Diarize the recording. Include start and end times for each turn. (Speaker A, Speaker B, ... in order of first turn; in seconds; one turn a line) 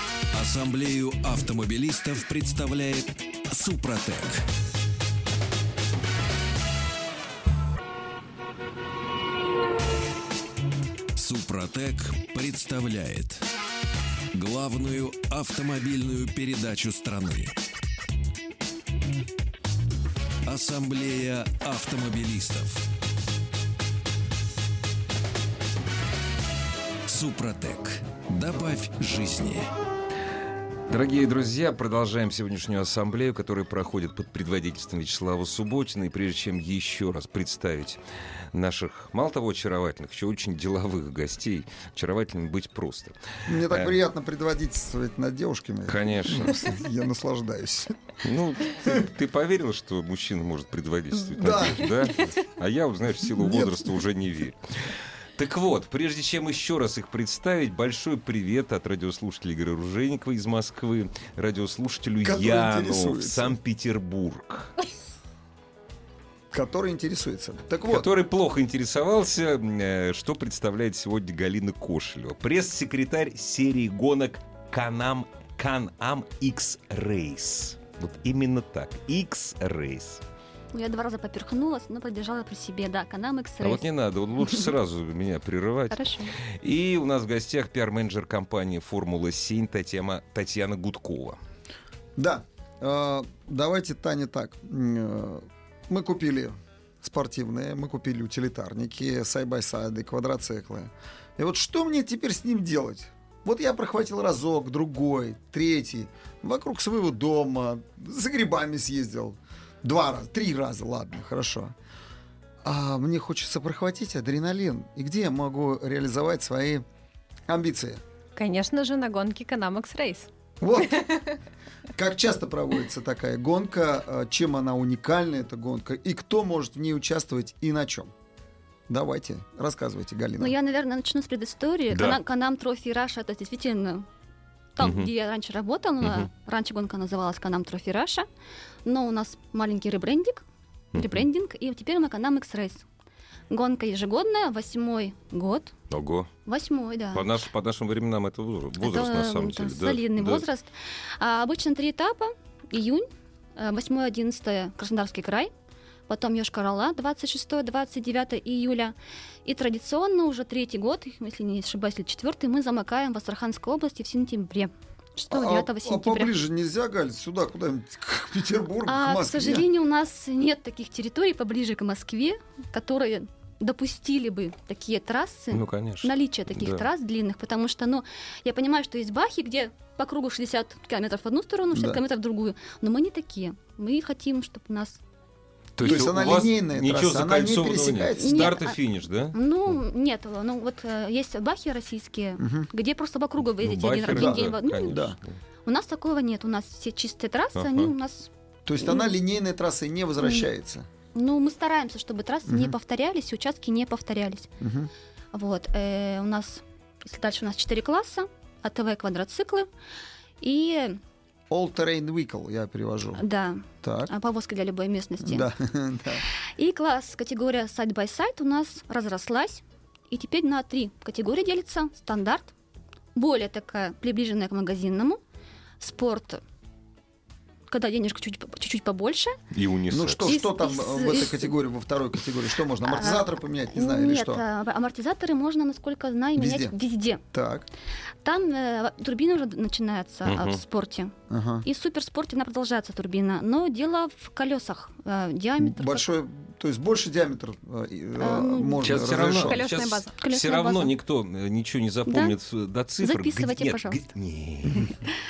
Speaker A: 0.3-4.4
Speaker A: 11.2-13.4
Speaker A: 14.3-17.6
Speaker A: 20.5-22.9
Speaker A: 27.1-29.7
Speaker B: 30.9-44.0
Speaker C: 43.5-48.1
Speaker B: 45.9-46.7
Speaker B: 48.2-64.7
Speaker C: 48.8-49.0
Speaker C: 51.1-52.3
Speaker C: 53.4-53.9
Speaker C: 62.2-63.6
Speaker C: 66.5-68.1
Speaker B: 67.9-80.2
Speaker D: 80.7-83.9
Speaker B: 83.6-91.4
Speaker D: 85.9-86.3
Speaker C: 92.2-111.7
Speaker C: 112.6-116.8
Speaker C: 117.5-118.0
Speaker E: 118.4-120.3
Speaker C: 120.6-121.2
Speaker C: 122.0-128.1
Speaker C: 128.9-130.5
Speaker D: 130.4-134.1
Speaker B: 131.9-132.2
Speaker D: 134.8-138.3
Speaker B: 134.8-135.1
Speaker B: 136.0-136.3
Speaker D: 138.8-140.4
Speaker B: 140.9-141.3
Speaker D: 140.9-142.8
Speaker D: 143.5-145.8
Speaker B: 145.9-146.3
Speaker D: 146.5-147.3
Speaker B: 147.1-150.4
Speaker D: 148.8-155.5
Speaker D: 156.1-158.9
Speaker D: 159.4-166.3
Speaker C: 165.3-169.7
Speaker D: 168.9-185.0
Speaker B: 175.5-176.9
Speaker C: 181.7-182.0
Speaker B: 185.8-189.8
Speaker C: 185.8-188.6
Speaker D: 188.2-188.8
Speaker D: 189.3-195.0
Speaker C: 192.4-192.7
Speaker B: 193.6-195.4
Speaker C: 194.1-195.2
Speaker D: 195.7-198.3
Speaker B: 197.6-197.9
Speaker C: 198.7-200.9
Speaker D: 198.8-199.1
Speaker D: 200.2-200.5
Speaker D: 201.1-204.5
Speaker C: 202.5-202.8
Speaker C: 204.6-204.9
Speaker D: 205.3-209.7
Speaker D: 210.4-211.0
Speaker C: 211.5-213.2
Speaker D: 213.2-215.5
Speaker C: 213.8-214.1
Speaker C: 215.2-216.2
Speaker D: 216.6-222.5
Speaker D: 223.2-225.2
Speaker D: 225.8-226.4
Speaker D: 227.7-229.4
Speaker B: 229.5-230.3
Speaker C: 229.9-234.4
Speaker D: 230.2-231.5
Speaker D: 232.8-237.2
Speaker C: 236.4-236.8
Speaker C: 237.3-237.7
Speaker D: 238.2-246.1
Speaker B: 240.3-240.6
Speaker C: 241.3-241.7
Speaker C: 245.6-249.6
Speaker D: 248.2-248.9
Speaker B: 248.8-255.0
Speaker E: 249.4-250.2
Speaker D: 250.2-250.9
Speaker D: 252.1-252.4
Speaker D: 253.0-254.1
Speaker D: 254.9-255.1